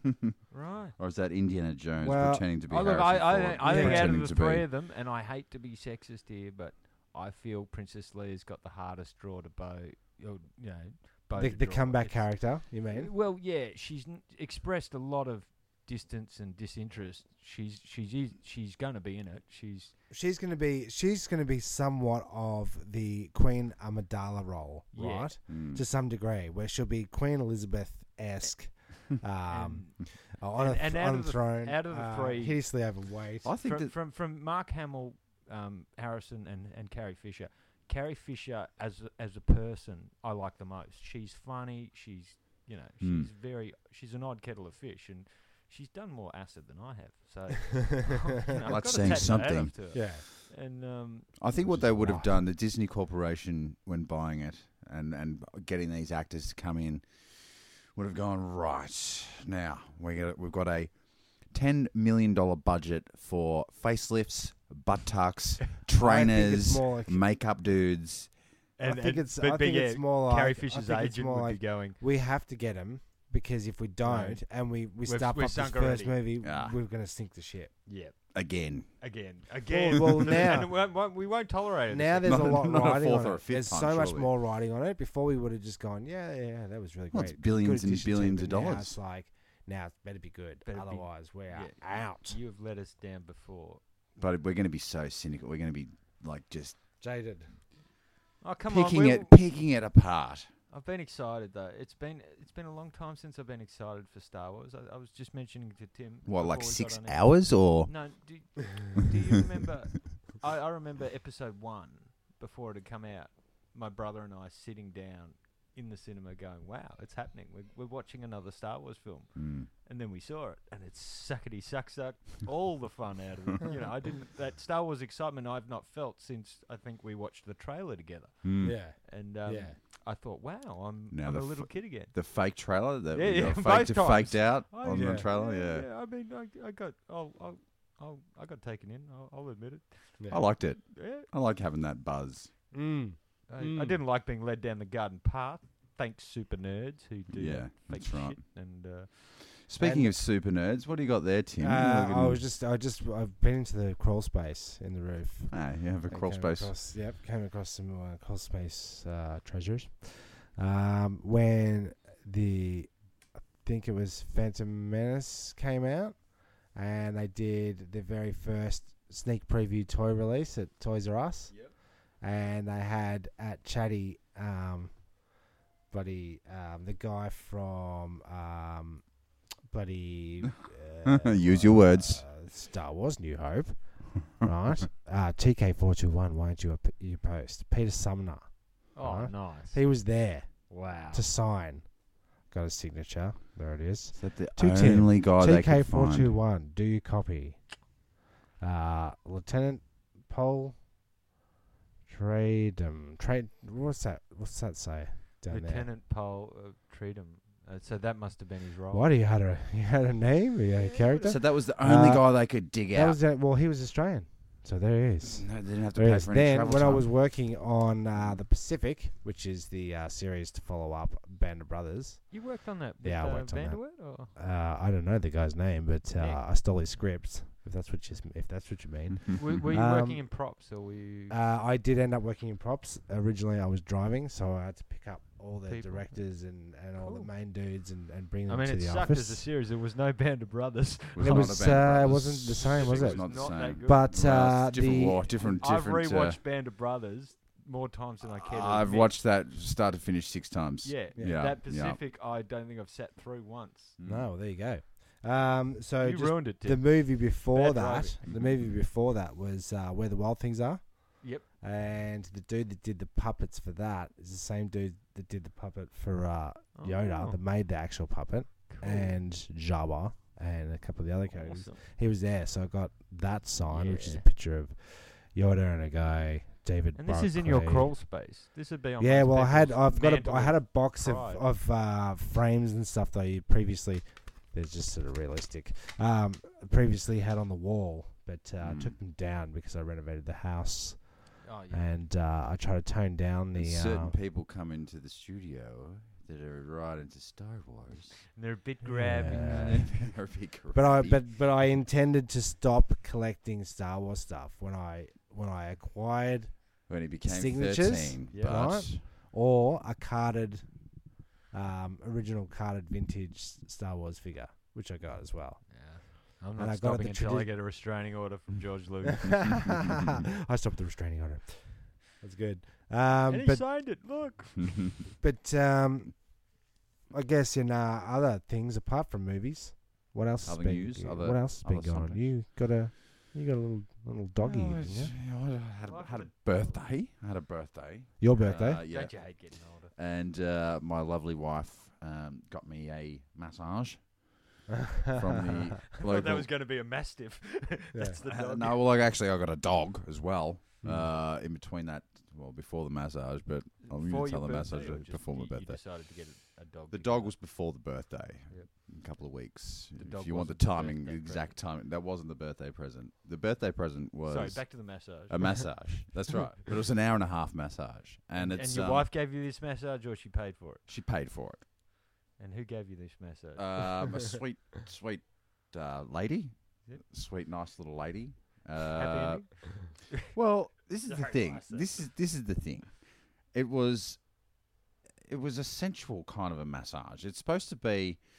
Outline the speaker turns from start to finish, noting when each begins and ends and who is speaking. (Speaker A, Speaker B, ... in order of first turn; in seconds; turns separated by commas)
Speaker A: 0.5-1.0, Speaker B: 0.9-4.7, Speaker C: 2.0-2.5, Speaker A: 2.7-19.9, Speaker C: 3.6-4.3, Speaker C: 11.3-13.1, Speaker C: 20.1-33.5, Speaker A: 24.9-25.3, Speaker B: 25.5-25.8, Speaker A: 29.4-33.0, Speaker B: 33.4-33.9, Speaker A: 33.6-52.3, Speaker B: 43.0-43.3, Speaker B: 48.7-50.1, Speaker C: 49.0-50.2, Speaker B: 51.4-68.5, Speaker C: 51.6-52.3, Speaker C: 65.9-67.2, Speaker A: 68.8-72.0, Speaker C: 68.8-77.8, Speaker A: 74.0-76.2, Speaker B: 76.4-76.8, Speaker A: 77.8-78.3, Speaker B: 78.3-79.2, Speaker A: 79.0-82.4, Speaker C: 79.7-80.7, Speaker C: 81.9-92.4, Speaker B: 82.2-84.3, Speaker B: 87.1-89.0, Speaker A: 90.6-93.8, Speaker B: 94.2-96.8, Speaker C: 97.0-97.5, Speaker A: 98.4-99.3, Speaker B: 98.7-100.5, Speaker A: 100.7-132.3, Speaker B: 106.2-108.2, Speaker B: 119.3-119.7, Speaker B: 128.4-128.8, Speaker C: 128.6-129.8, Speaker B: 131.1-135.9, Speaker A: 133.1-141.3, Speaker C: 134.8-135.3, Speaker B: 140.3-142.5, Speaker C: 142.7-144.0, Speaker A: 143.5-149.5, Speaker B: 147.3-152.4, Speaker C: 149.8-150.2, Speaker C: 151.6-163.1, Speaker B: 155.5-156.8, Speaker C: 163.6-175.1, Speaker A: 171.5-171.7, Speaker C: 175.9-197.8, Speaker B: 181.1-182.2, Speaker A: 188.9-190.0, Speaker A: 190.7-191.3, Speaker B: 194.1-196.4, Speaker C: 198.6-200.8, Speaker C: 202.1-205.9, Speaker A: 205.5-209.1, Speaker C: 208.9-230.6, Speaker A: 210.8-211.4, Speaker B: 211.2-213.2, Speaker B: 215.2-217.5, Speaker B: 218.1-218.4, Speaker A: 222.3-224.3, Speaker A: 226.2-226.4, Speaker A: 229.3-231.4, Speaker C: 231.3-239.5, Speaker A: 235.7-236.4, Speaker A: 237.0-237.3, Speaker A: 238.5-241.5, Speaker B: 241.1-246.4, Speaker C: 241.2-245.6, Speaker A: 242.7-244.6, Speaker A: 245.2-249.2, Speaker B: 248.2-252.0, Speaker A: 250.8-253.9, Speaker B: 254.0-254.3, Speaker C: 254.0-278.3, Speaker A: 256.0-258.3, Speaker B: 258.3-258.6, Speaker A: 261.2-261.4, Speaker A: 266.7-267.4, Speaker A: 268.7-269.2, Speaker A: 271.2-271.8, Speaker A: 273.7-274.3, Speaker A: 276.9-281.4, Speaker C: 279.0-294.2, Speaker B: 288.6-288.9, Speaker A: 291.4-292.0, Speaker B: 293.5-298.3, Speaker A: 298.3-299.9, Speaker C: 298.8-317.5, Speaker B: 299.2-301.2, Speaker B: 306.9-309.0, Speaker A: 308.3-308.6, Speaker A: 315.7-319.7, Speaker C: 319.2-324.2, Speaker A: 323.3-325.0, Speaker C: 325.2-326.5, Speaker C: 327.1-335.1, Speaker B: 330.4-332.5, Speaker B: 334.4-344.3, Speaker A: 335.8-336.8, Speaker C: 338.2-338.8, Speaker A: 338.6-339.9, Speaker C: 344.7-345.6, Speaker B: 345.1-346.6, Speaker A: 346.0-348.8, Speaker C: 347.9-348.2, Speaker B: 348.3-356.0, Speaker A: 353.8-357.4, Speaker B: 356.9-369.1, Speaker A: 358.5-359.2, Speaker A: 360.0-361.6, Speaker A: 364.2-365.8, Speaker A: 368.4-370.9, Speaker B: 370.9-371.6, Speaker A: 372.4-373.8, Speaker B: 373.6-384.3, Speaker A: 378.9-380.2, Speaker A: 381.1-381.9, Speaker B: 385.2-388.2